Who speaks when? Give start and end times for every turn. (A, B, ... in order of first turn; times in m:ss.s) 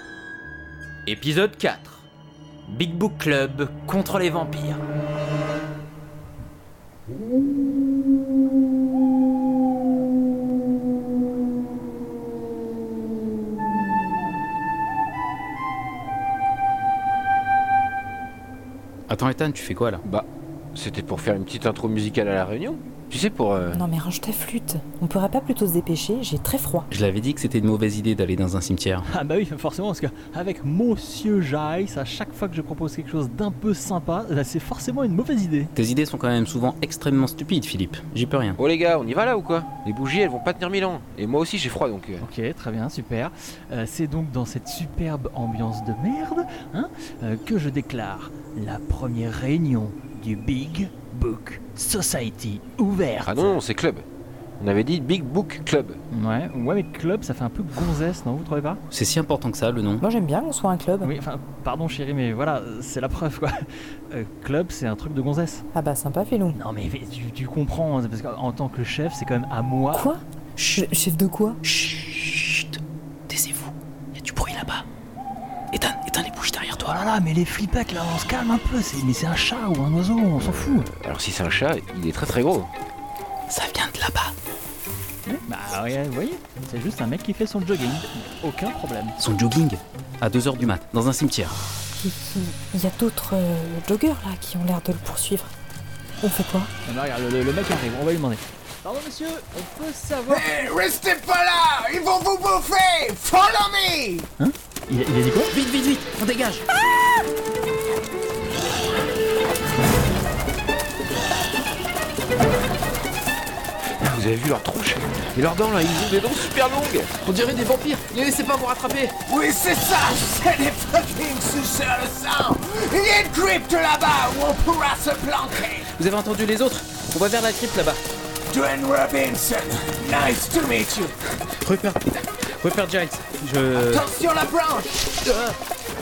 0:01.0-0:02.1 A
0:02.7-0:04.8 A
0:19.1-0:20.0 B
0:20.0-0:23.8 C
0:23.7-0:26.9 D
0:26.9-0:29.0 B
0:29.1-0:35.7 E
0:35.8-0:38.6 B
0:38.6-0:42.2 C
0:42.2-0:53.6 E
0:53.2-0:54.0 C
0:54.6-0:56.0 C
0:56.1-0:58.8 E
0:58.9-1:00.0 B
1:00.0-1:01.1 D
1:01.0-1:03.6 E
1:04.1-1:05.6 E
1:05.7-1:06.6 D
1:06.5-1:10.1 E
1:09.9-1:11.6 D
1:11.6-1:12.8 B
1:13.3-1:14.8 B
1:15.7-1:17.0 B
1:16.8-1:20.9 E
1:20.9-1:22.7 C
1:23.5-1:24.3 B
1:25.2-1:29.2 E
1:29.2-1:31.6 B
1:31.9-1:35.5 D
1:36.2-1:36.7 D
1:36.8-1:40.6 E
1:40.3-1:44.3 F
1:44.4-1:45.5 E
1:45.5-1:46.7 B
1:54.0-1:57.1 C
1:57.2-1:59.1 B
1:59.2-2:05.9 F
2:06.0-2:08.0 B
2:08.5-2:11.2 F
2:11.5-2:14.1 B
2:13.8-2:15.2 F
2:15.2-2:15.6 B